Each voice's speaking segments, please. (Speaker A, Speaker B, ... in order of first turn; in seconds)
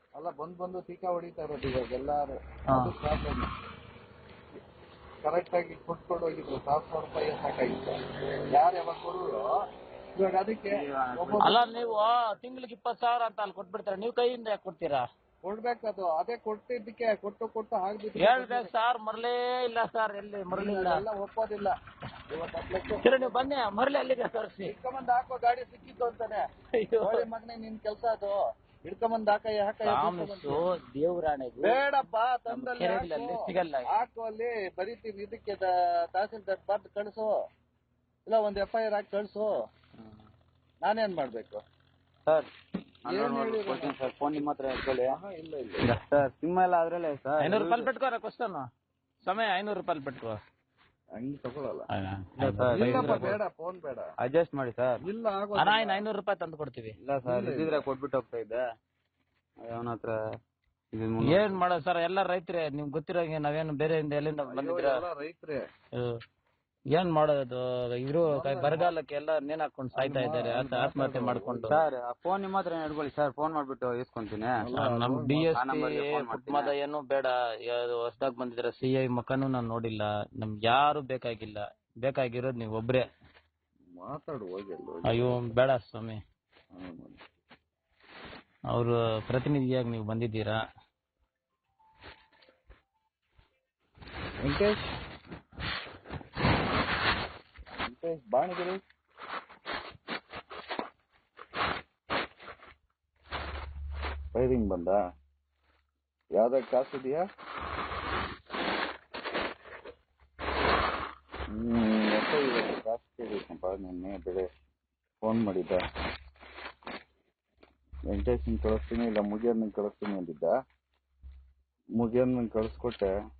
Speaker A: 0.2-3.5, 5.2-8.0, 8.5-9.4, 10.2-11.9, 15.4-18.7, 20.5-21.7, 22.3-23.5, 24.6-26.4, 27.0-30.6, 31.6-37.3, 38.2-39.5, 40.8-41.6, 43.0-44.0, 45.1-45.9, 51.2-51.9, 52.7-54.1, 55.0-56.0, 57.2-57.8, 64.5-65.6, 68.3-68.9, 70.0-71.8, 74.6-75.4, 84.0-85.4, 86.7-87.2, 94.4-94.8, 97.8-98.8, 104.3-105.0, 106.3-107.2, 111.5-114.5, 115.2-115.8, 118.1-120.5, 122.0-123.1
Speaker B: 10.7-11.7, 43.0-45.1, 45.9-47.9, 52.4-53.4, 54.2-55.0, 57.0-58.6, 59.6-60.2, 60.9-61.6, 71.6-74.6, 75.4-76.7
Speaker C: 11.4-15.1, 18.2-21.0, 23.0-24.7, 26.8-27.2, 29.8-31.8, 32.5-33.9, 47.4-48.7, 49.2-50.4, 51.9-53.4, 55.6-56.9, 61.3-65.0, 66.9-71.8, 74.7-83.0, 85.1-86.2, 88.7-90.6